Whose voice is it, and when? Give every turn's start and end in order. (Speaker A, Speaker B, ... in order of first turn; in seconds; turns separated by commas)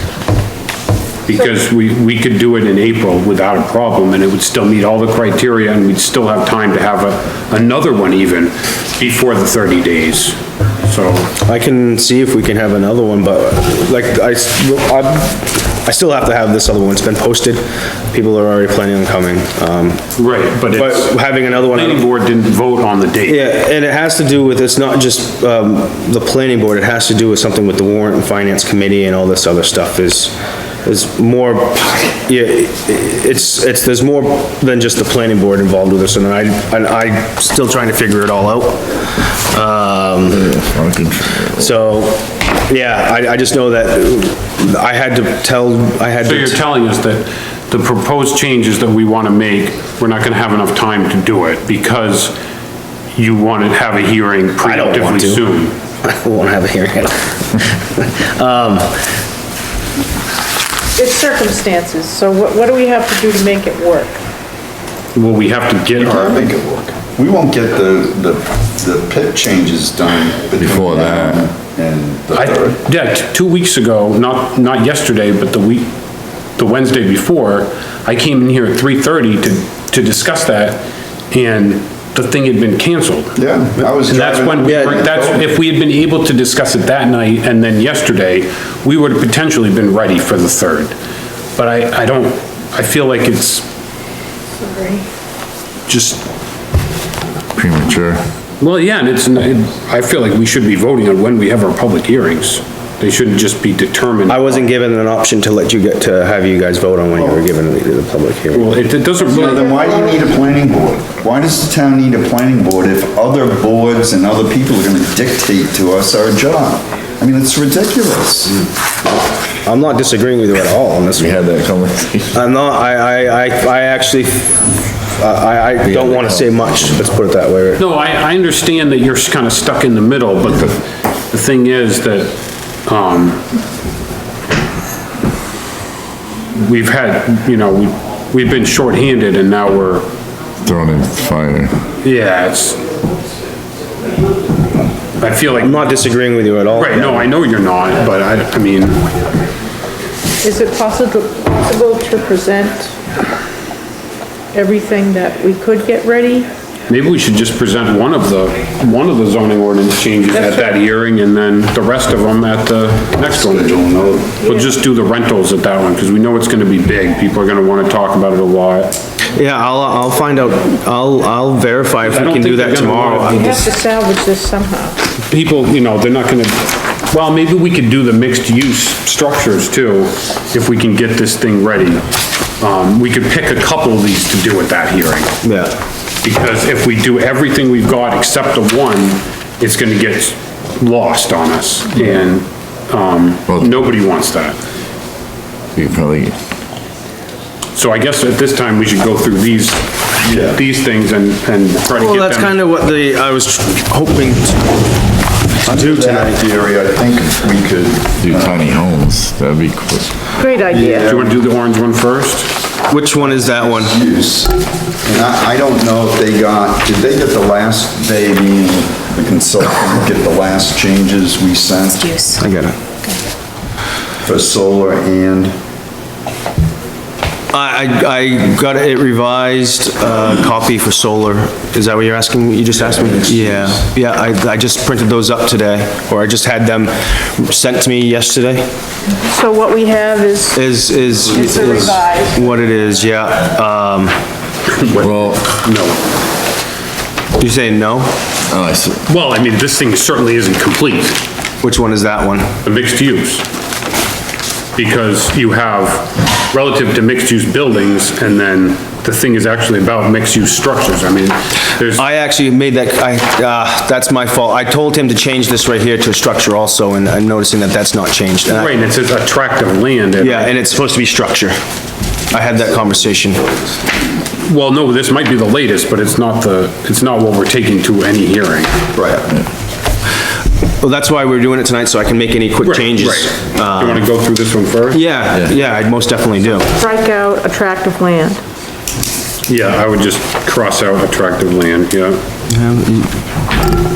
Speaker A: 1.3-11.3, Speaker B: 11.4-20.1, Speaker A: 20.2-23.5, Speaker B: 20.7-22.0, Speaker B: 23.3-30.3, Speaker B: 30.9-40.5, Speaker C: 40.4-41.7, Speaker B: 41.6-46.6, Speaker A: 46.2-52.4, Speaker A: 53.1-55.8, Speaker B: 54.6-55.4, Speaker B: 56.0-59.1, Speaker D: 61.0-64.2, Speaker A: 65.2-66.4, Speaker E: 66.0-72.8, Speaker C: 70.6-71.5, Speaker A: 72.3-75.9, Speaker A: 76.6-83.4, Speaker E: 83.4-85.4, Speaker A: 84.1-90.9, Speaker B: 84.7-85.1, Speaker A: 91.6-93.7, Speaker D: 94.6-95.0, Speaker A: 95.9-96.2, Speaker C: 97.6-98.2, Speaker A: 98.6-104.7, Speaker B: 104.3-108.7, Speaker A: 108.5-109.8, Speaker E: 109.3-118.5, Speaker D: 109.4-110.0, Speaker B: 119.7-121.3, Speaker C: 121.1-122.4, Speaker B: 122.3-124.6, Speaker B: 125.2-127.8, Speaker C: 125.8-127.1, Speaker A: 127.8-130.8, Speaker A: 131.3-132.3, Speaker A: 132.9-133.4, Speaker A: 136.5-140.1, Speaker C: 140.6-141.8, Speaker A: 142.0-142.8, Speaker A: 145.2-145.9, Speaker B: 145.6-147.3, Speaker A: 146.7-149.0, Speaker D: 150.4-152.9, Speaker D: 154.5-156.5, Speaker A: 156.9-169.0, Speaker D: 160.3-160.8, Speaker E: 163.5-164.2, Speaker B: 169.3-173.5, Speaker A: 172.1-173.7, Speaker D: 173.2-174.9, Speaker A: 175.3-182.1, Speaker A: 182.6-185.3, Speaker B: 185.4-185.7, Speaker A: 186.2-194.6, Speaker C: 195.8-196.3, Speaker A: 197.8-202.6, Speaker E: 200.2-200.6, Speaker B: 202.0-204.8, Speaker E: 205.7-208.6, Speaker B: 205.7-206.4, Speaker C: 208.2-210.3, Speaker D: 210.4-211.2, Speaker E: 210.7-211.4, Speaker A: 211.0-212.5, Speaker B: 212.9-214.0, Speaker E: 213.2-222.2, Speaker B: 222.2-222.8, Speaker E: 224.2-225.5, Speaker B: 227.5-238.7, Speaker E: 232.9-233.8, Speaker D: 239.2-242.5, Speaker B: 240.6-244.2, Speaker A: 244.7-246.0, Speaker C: 245.0-245.4, Speaker B: 247.4-248.2, Speaker C: 248.5-249.0, Speaker A: 249.1-251.2, Speaker B: 251.6-252.6, Speaker A: 252.7-253.4, Speaker A: 254.8-262.1, Speaker B: 262.0-268.7, Speaker A: 268.5-270.6, Speaker B: 270.2-271.6, Speaker B: 272.3-273.5, Speaker A: 274.4-278.7, Speaker E: 278.9-279.3, Speaker B: 280.8-284.0, Speaker A: 282.6-285.2, Speaker B: 284.9-286.7, Speaker C: 285.4-285.7, Speaker D: 286.7-288.4, Speaker A: 289.5-292.2, Speaker B: 292.5-293.1